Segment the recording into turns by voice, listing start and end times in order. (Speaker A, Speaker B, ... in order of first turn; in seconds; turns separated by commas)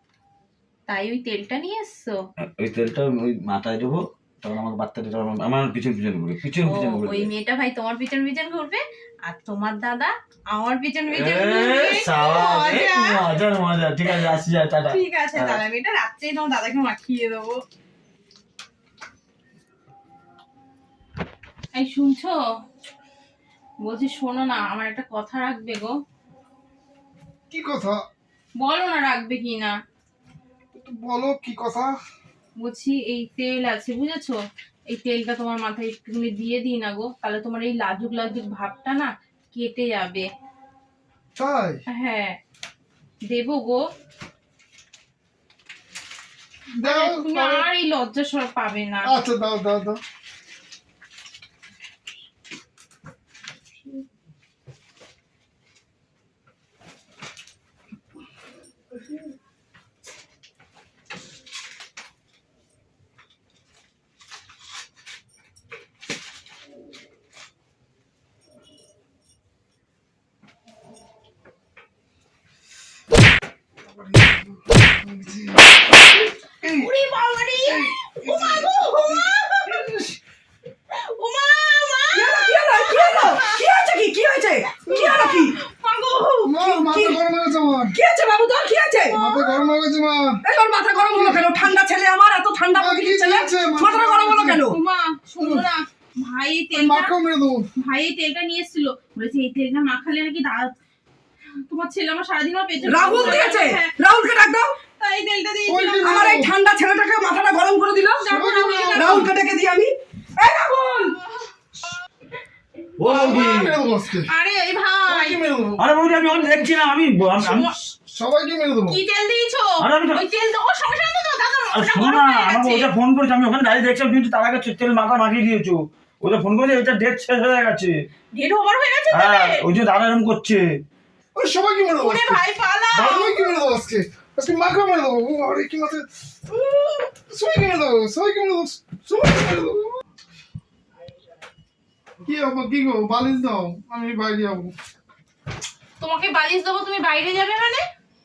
Speaker A: 0.9-2.2, Speaker B: 2.4-7.3, Speaker A: 6.6-13.2, Speaker B: 11.1-15.6, Speaker A: 14.9-17.6, Speaker A: 21.8-22.4, Speaker A: 23.9-26.0, Speaker C: 27.5-28.0, Speaker A: 28.6-29.7, Speaker C: 30.7-31.9, Speaker A: 32.6-40.3, Speaker C: 41.4-41.8, Speaker A: 41.9-42.4, Speaker A: 43.3-43.8, Speaker C: 46.8-47.7, Speaker A: 46.8-49.1, Speaker C: 49.0-50.0, Speaker C: 73.8-75.7, Speaker C: 76.6-76.9, Speaker A: 76.7-79.8, Speaker C: 77.7-80.2, Speaker A: 80.9-83.6, Speaker D: 82.1-85.6, Speaker A: 84.9-86.5, Speaker C: 84.9-85.1, Speaker C: 86.5-88.0, Speaker D: 86.6-87.2, Speaker D: 87.9-89.2, Speaker A: 89.1-89.6, Speaker C: 89.1-90.4, Speaker D: 90.4-94.8, Speaker C: 91.1-91.6, Speaker C: 92.8-94.6, Speaker A: 94.7-97.1, Speaker C: 95.4-95.7, Speaker C: 96.8-97.7, Speaker A: 97.8-100.7, Speaker A: 101.6-104.0, Speaker D: 102.9-104.8, Speaker A: 105.0-106.4, Speaker C: 105.7-106.5, Speaker D: 106.0-108.3, Speaker A: 108.2-109.3, Speaker C: 108.3-109.3, Speaker D: 108.8-111.2, Speaker B: 113.0-113.8, Speaker C: 113.0-114.3, Speaker A: 113.0-113.6, Speaker A: 114.3-115.4, Speaker C: 115.1-115.9, Speaker B: 115.8-117.7, Speaker A: 117.4-117.9, Speaker C: 118.1-119.0, Speaker A: 118.9-122.9, Speaker B: 119.8-120.2, Speaker B: 121.7-127.9, Speaker A: 128.3-129.6, Speaker B: 129.1-130.7, Speaker C: 131.3-140.0, Speaker A: 132.0-133.5, Speaker C: 142.2-144.7, Speaker A: 146.0-147.8